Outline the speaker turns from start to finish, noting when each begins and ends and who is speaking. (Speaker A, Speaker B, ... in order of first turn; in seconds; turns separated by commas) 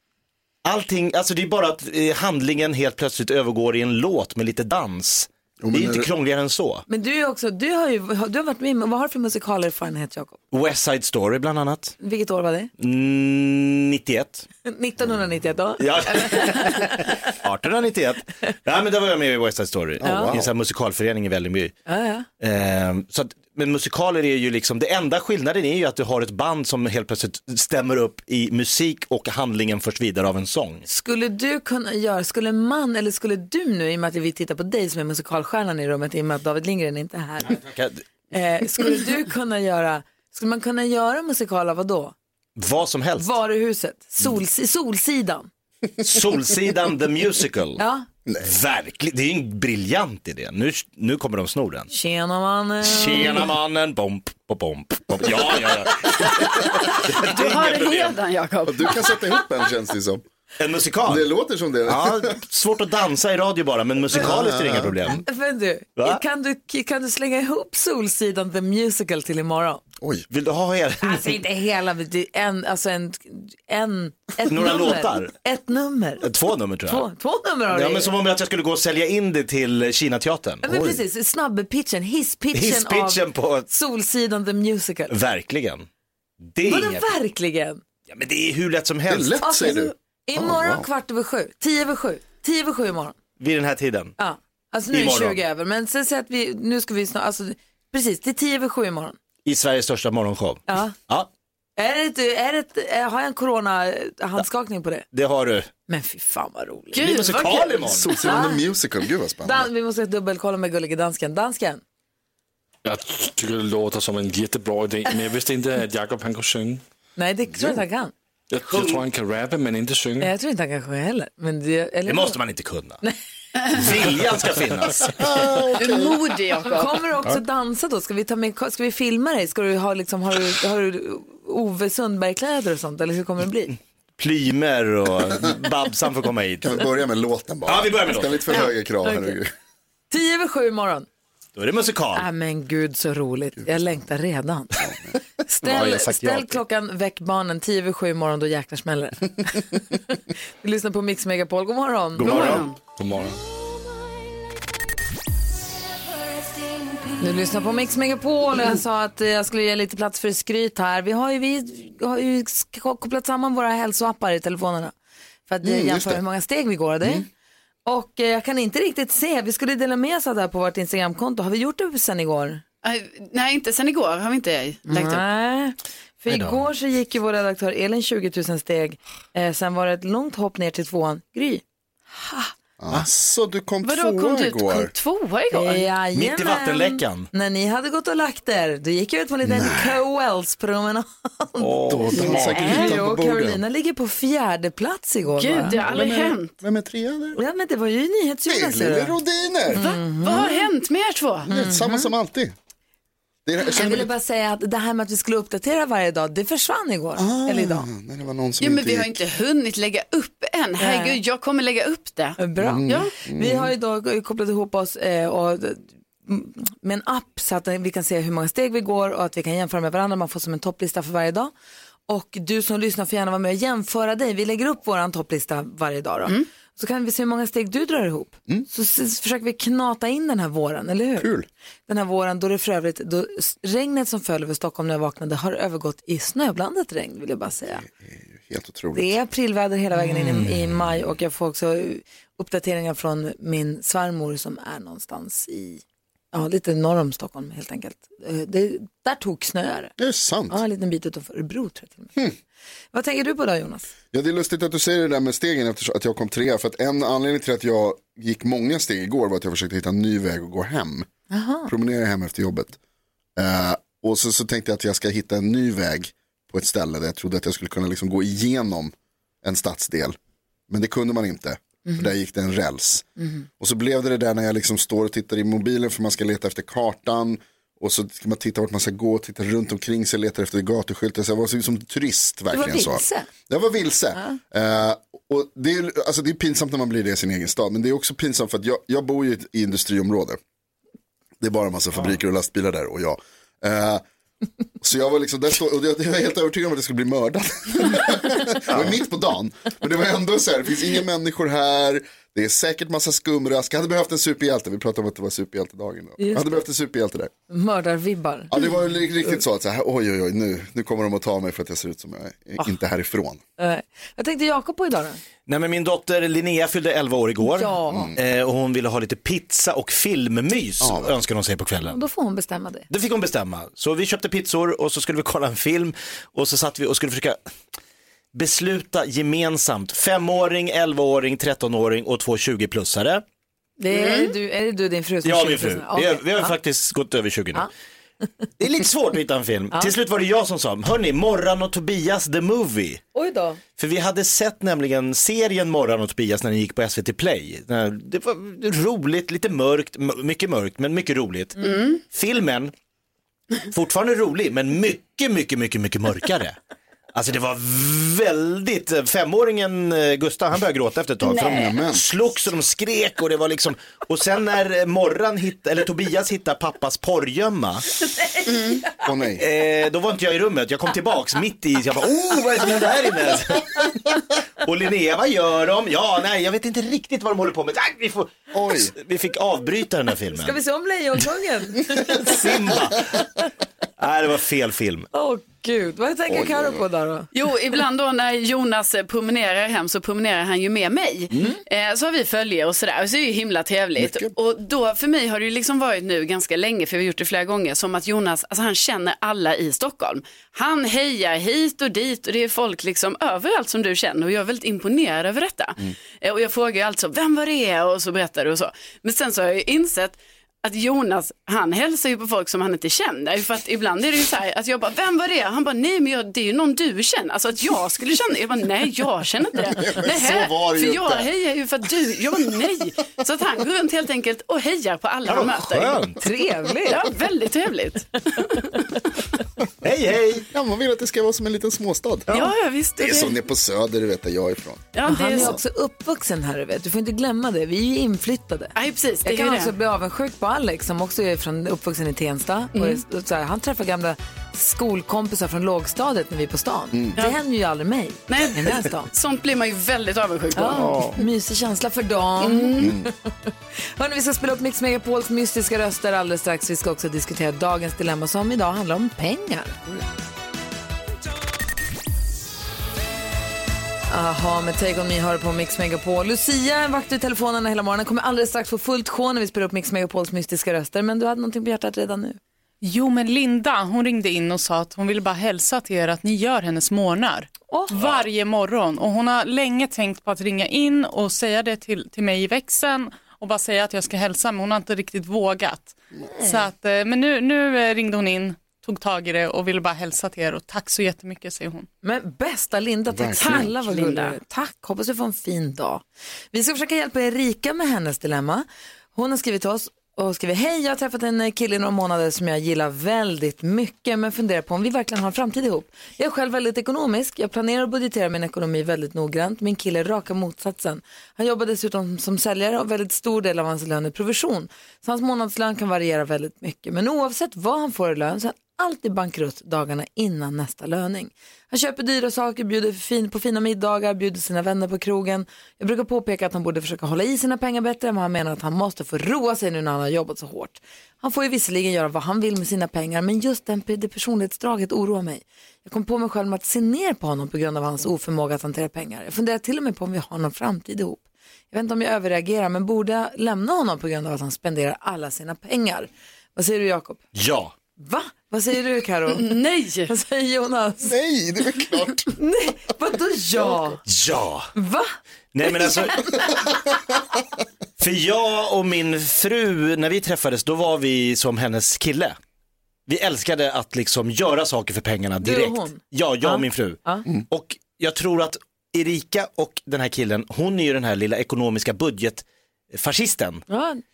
Speaker A: 0.6-6.8, Speaker B: 5.6-6.1, Speaker C: 6.9-10.4, Speaker A: 10.5-12.0, Speaker C: 12.0-12.7, Speaker A: 12.8-14.5, Speaker C: 14.7-17.1, Speaker A: 15.8-21.8, Speaker B: 20.0-20.5, Speaker C: 20.0-20.3, Speaker C: 21.9-22.3, Speaker A: 22.4-30.8, Speaker C: 30.9-37.6, Speaker A: 37.5-38.0, Speaker C: 38.3-42.1, Speaker A: 42.6-43.3, Speaker C: 43.2-45.5, Speaker A: 46.0-47.8, Speaker C: 47.8-48.1, Speaker A: 48.4-51.9, Speaker C: 51.9-53.5, Speaker A: 52.8-58.2, Speaker D: 57.2-59.0, Speaker B: 58.6-60.2, Speaker A: 60.6-61.3, Speaker B: 61.0-62.3, Speaker A: 61.9-65.2, Speaker B: 64.1-65.2, Speaker C: 65.1-69.8, Speaker A: 70.3-71.4, Speaker C: 71.0-76.3, Speaker A: 74.4-75.3, Speaker A: 76.2-77.1, Speaker C: 76.9-78.1, Speaker A: 77.7-80.9, Speaker C: 80.6-85.1, Speaker B: 80.7-81.0, Speaker A: 82.5-83.7, Speaker A: 85.1-85.9, Speaker A: 86.4-87.0, Speaker C: 86.7-87.8, Speaker A: 88.1-89.4, Speaker B: 89.1-90.9, Speaker C: 89.4-93.2, Speaker A: 93.4-94.2, Speaker C: 94.2-99.2, Speaker A: 94.9-95.4, Speaker A: 99.5-101.3, Speaker C: 100.7-100.9, Speaker C: 101.8-105.1, Speaker A: 105.1-105.7, Speaker C: 105.9-107.0, Speaker D: 106.9-107.8, Speaker A: 107.0-108.1, Speaker B: 107.8-109.7, Speaker C: 108.2-108.6, Speaker C: 109.4-111.8, Speaker E: 112.8-116.8, Speaker C: 117.2-118.1, Speaker B: 117.5-117.8, Speaker E: 118.5-120.3, Speaker A: 118.7-119.0, Speaker C: 120.2-122.4, Speaker A: 122.1-123.0, Speaker A: 123.7-125.5, Speaker B: 125.2-126.2, Speaker D: 125.8-127.0, Speaker C: 126.7-133.8, Speaker A: 134.2-136.9, Speaker B: 136.6-139.5, Speaker A: 137.7-138.5, Speaker C: 138.5-139.4, Speaker C: 140.1-141.1, Speaker A: 141.6-142.3, Speaker C: 142.2-144.8, Speaker B: 144.8-145.1, Speaker C: 145.5-152.6, Speaker B: 145.7-145.9, Speaker A: 145.7-146.5, Speaker E: 152.2-153.4, Speaker A: 152.2-152.6, Speaker D: 152.3-152.7, Speaker C: 157.2-164.9, Speaker C: 165.5-167.3, Speaker B: 165.6-166.2, Speaker C: 167.9-172.6, Speaker D: 172.8-175.2, Speaker C: 174.9-182.5, Speaker A: 176.3-176.6, Speaker B: 182.8-184.9, Speaker D: 183.8-185.9, Speaker C: 185.5-195.8, Speaker A: 186.1-187.3, Speaker B: 189.4-190.0, Speaker A: 191.6-192.3, Speaker B: 191.9-193.6, Speaker D: 192.6-192.9, Speaker D: 195.4-196.5, Speaker B: 195.8-197.4, Speaker C: 197.4-199.2, Speaker B: 198.5-199.8, Speaker C: 199.7-200.7, Speaker D: 199.7-201.5, Speaker B: 201.5-202.6, Speaker C: 201.5-202.1, Speaker B: 203.4-204.1, Speaker C: 203.6-207.9, Speaker B: 207.2-209.2, Speaker D: 208.6-213.1, Speaker C: 210.8-211.2, Speaker C: 212.4-221.5, Speaker B: 212.6-213.7, Speaker C: 222.1-231.3, Speaker B: 231.2-231.5, Speaker C: 231.9-237.8, Speaker B: 237.7-239.2, Speaker C: 238.9-249.9, Speaker A: 240.1-240.5, Speaker B: 250.0-250.6, Speaker C: 250.5-252.2, Speaker C: 252.9-253.9, Speaker B: 254.1-261.1, Speaker C: 261.3-261.7, Speaker B: 261.7-262.8, Speaker B: 263.4-270.2, Speaker B: 270.7-273.1, Speaker C: 273.2-273.4, Speaker B: 273.6-290.4, Speaker C: 282.5-283.3, Speaker B: 291.4-294.0, Speaker B: 294.8-307.3, Speaker C: 306.2-306.6, Speaker C: 307.5-308.7, Speaker B: 308.5-313.4, Speaker C: 313.6-315.2, Speaker A: 315.5-322.0, Speaker C: 317.4-318.1, Speaker B: 317.9-318.2, Speaker B: 320.8-321.2, Speaker C: 321.9-322.9, Speaker A: 322.9-327.4, Speaker A: 328.3-333.2, Speaker C: 333.8-336.5, Speaker D: 333.9-334.3, Speaker A: 335.2-337.7, Speaker A: 338.6-343.0, Speaker C: 343.1-343.6, Speaker A: 343.8-352.7, Speaker D: 351.6-352.0, Speaker A: 353.7-356.6, Speaker A: 357.1-367.9, Speaker B: 361.3-362.0, Speaker B: 369.0-369.4, Speaker A: 369.4-380.6, Speaker B: 378.5-378.9, Speaker C: 380.4-382.4, Speaker A: 382.0-383.2, Speaker A: 384.0-385.1, Speaker C: 385.1-387.3, Speaker B: 386.3-386.9, Speaker D: 387.3-426.1, Speaker B: 394.0-394.3, Speaker B: 419.7-421.3, Speaker A: 425.2-426.2, Speaker C: 426.2-427.1, Speaker D: 426.8-428.7, Speaker A: 429.8-430.5, Speaker B: 430.5-432.4, Speaker D: 432.3-433.4, Speaker B: 433.0-435.6, Speaker D: 434.9-435.6, Speaker C: 435.1-449.1, Speaker D: 438.8-439.7, Speaker D: 442.7-443.0, Speaker B: 446.9-447.2, Speaker D: 448.3-451.1, Speaker C: 450.6-459.8, Speaker B: 450.7-451.1, Speaker D: 452.4-452.9, Speaker B: 452.8-453.1, Speaker C: 464.1-472.4, Speaker F: 472.8-491.9, Speaker A: 477.9-478.3, Speaker C: 486.2-486.7, Speaker C: 492.0-547.2, Speaker B: 493.1-493.7, Speaker D: 493.4-494.4, Speaker A: 547.4-547.7, Speaker C: 548.0-549.5, Speaker D: 549.3-550.1, Speaker C: 550.1-551.1, Speaker B: 551.0-552.3, Speaker C: 552.3-554.0, Speaker A: 554.1-554.7, Speaker C: 554.8-555.1, Speaker A: 555.5-556.4, Speaker A: 558.0-562.4, Speaker A: 563.1-573.6, Speaker C: 565.4-567.3, Speaker C: 573.7-574.0